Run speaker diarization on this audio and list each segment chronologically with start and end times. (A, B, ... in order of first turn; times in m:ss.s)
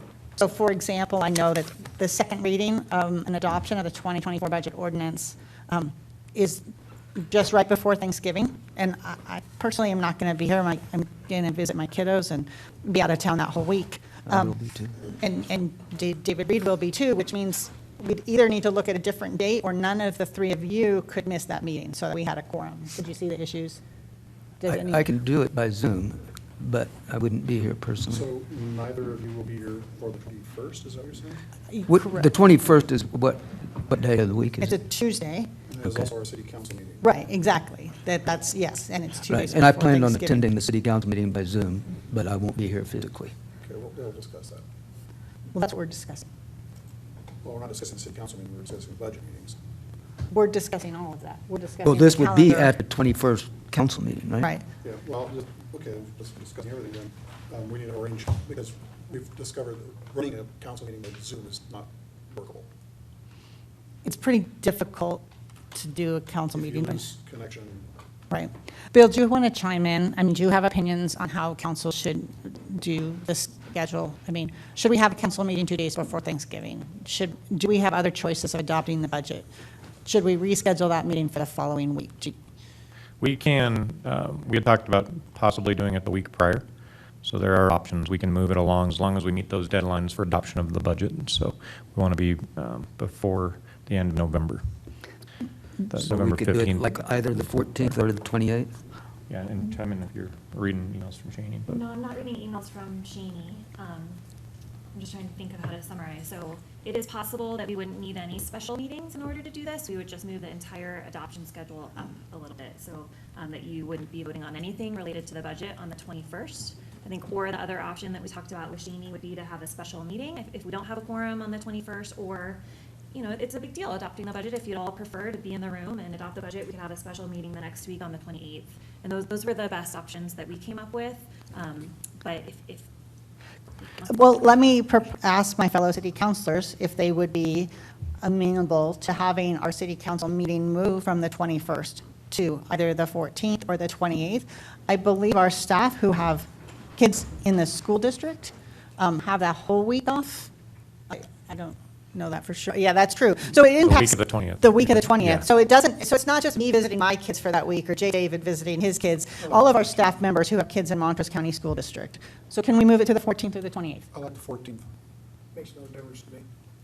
0:00.4-0:06.6 A
0:07.2-0:23.8 A
0:14.3-0:15.0 B
0:24.6-0:25.1 A
0:24.7-0:28.3 B
0:28.1-0:31.4 C
0:31.7-0:32.3 A
0:31.9-0:34.8 B
0:34.6-0:35.5 A
0:35.7-0:37.1 C
0:35.8-0:36.1 B
0:37.0-0:40.5 A
0:39.3-0:43.3 B
0:43.6-0:44.6 C
0:45.5-0:46.3 A
0:47.4-0:49.6 C
0:50.3-0:52.7 A
0:51.8-0:54.5 B
0:54.8-1:02.7 C
1:04.0-1:07.1 A
1:06.5-1:07.9 C
1:08.3-1:19.5 A
1:20.0-1:22.4 A
1:23.2-1:26.6 D
1:27.2-1:34.6 D
1:35.9-1:37.0 D
1:36.0-1:38.7 B
1:39.3-1:41.8 D
1:41.7-1:44.2 E
1:44.9-2:02.6 E
2:03.1-2:12.9 E
2:14.1-2:17.7 A
2:18.2-2:30.5 A
2:31.1-2:44.1 A
2:33.8-2:35.4 D
2:44.1-2:44.9 C
2:45.6-2:46.5 C